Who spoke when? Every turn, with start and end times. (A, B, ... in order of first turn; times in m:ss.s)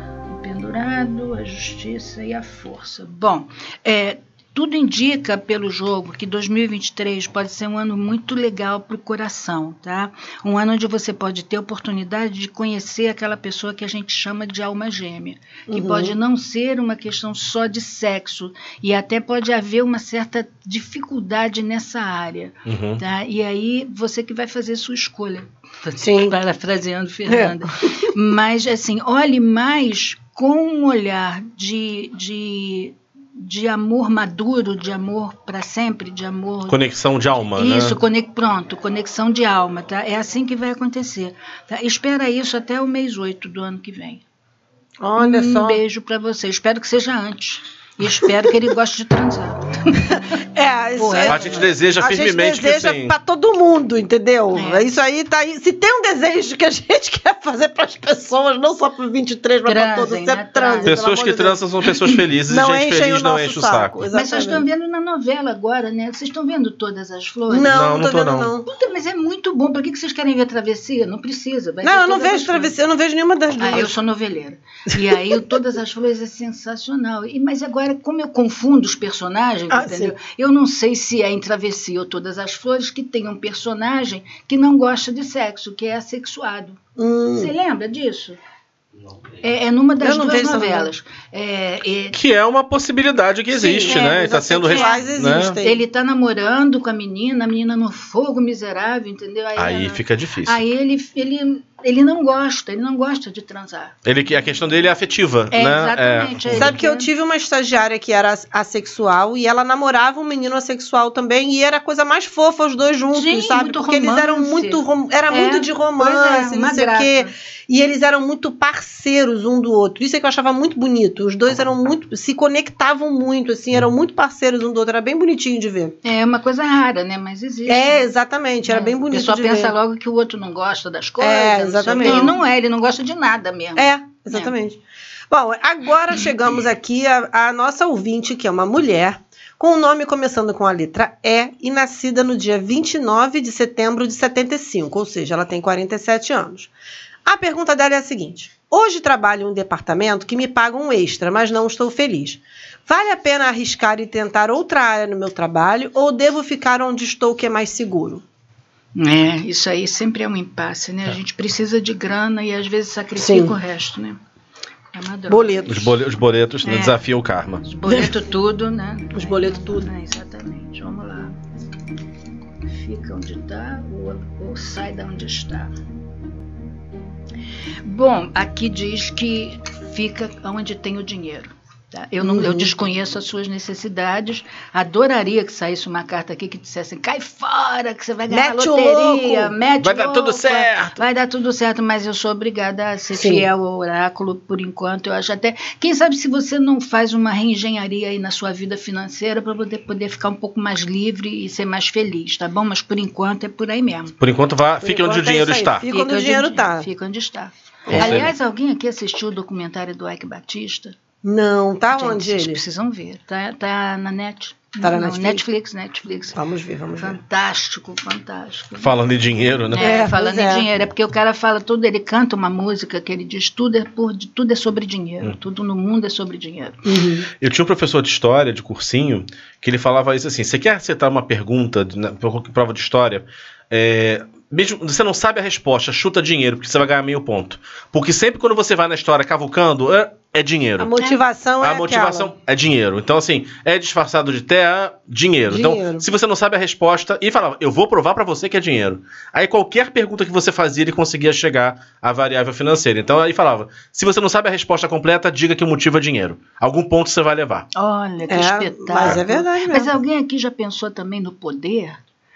0:00.3-0:36.8 A
0:15.7-0:16.1 B
0:22.7-0:23.0 C
0:26.0-0:26.4 B
0:27.3-0:28.0 B
0:36.7-0:38.0 C
0:37.5-0:44.2 A
0:45.0-0:45.8 B
0:45.2-0:50.2 A
0:50.5-1:01.5 B
0:51.0-0:51.6 A
0:51.3-0:53.1 C
0:54.6-0:54.9 A
0:59.6-1:01.6 A
1:00.9-1:04.0 C
1:02.5-1:04.6 B
1:04.1-1:07.7 A
1:07.5-1:08.7 B
1:07.7-1:08.5 C
1:08.7-1:12.8 A
1:11.8-1:13.9 B
1:13.6-1:26.8 A
1:19.7-1:20.1 B
1:27.0-1:27.5 B
1:27.4-1:28.4 A
1:29.4-1:32.2 A
1:30.0-1:30.9 B
1:32.1-1:35.6 C
1:33.5-1:35.8 B
1:33.8-1:35.0 A
1:35.6-1:44.0 A
1:39.6-1:40.6 C
1:44.0-1:46.8 C
1:45.5-1:47.1 A
1:46.5-2:06.0 B
1:53.1-1:57.3 A
2:06.0-2:08.1 A
2:07.7-2:09.7 B
2:08.7-2:14.5 A
2:11.2-2:12.4 B
2:13.8-2:14.8 B
2:15.3-2:26.7 B
2:27.2-2:38.2 B
2:39.0-2:44.2 A
2:43.2-2:43.6 B
2:44.9-2:45.9 A
2:45.3-2:45.9 B
2:45.7-2:47.6 C
2:46.6-2:47.0 A
2:47.6-2:51.3 A
2:49.1-2:49.9 B
2:52.7-2:55.7 A
2:57.8-3:24.2 A
3:02.2-3:02.7 B
3:08.3-3:09.6 B
3:09.8-3:11.0 C
3:13.1-3:13.5 B
3:24.2-3:25.8 C
3:24.8-3:26.9 B
3:25.9-3:31.0 A
3:27.9-3:28.3 C
3:27.9-3:28.3 B
3:31.2-3:32.6 B
3:31.9-3:36.4 A
3:34.8-3:35.4 B
3:36.3-3:37.2 B
3:37.0-3:38.9 A
3:38.8-3:40.0 C
3:39.7-3:46.9 A
3:39.8-3:40.7 B
3:46.8-3:47.3 B
3:47.4-4:00.9 C
4:00.8-4:02.3 B
4:01.6-4:17.6 C
4:05.5-4:06.0 B
4:17.8-4:22.0 A
4:18.3-4:19.9 B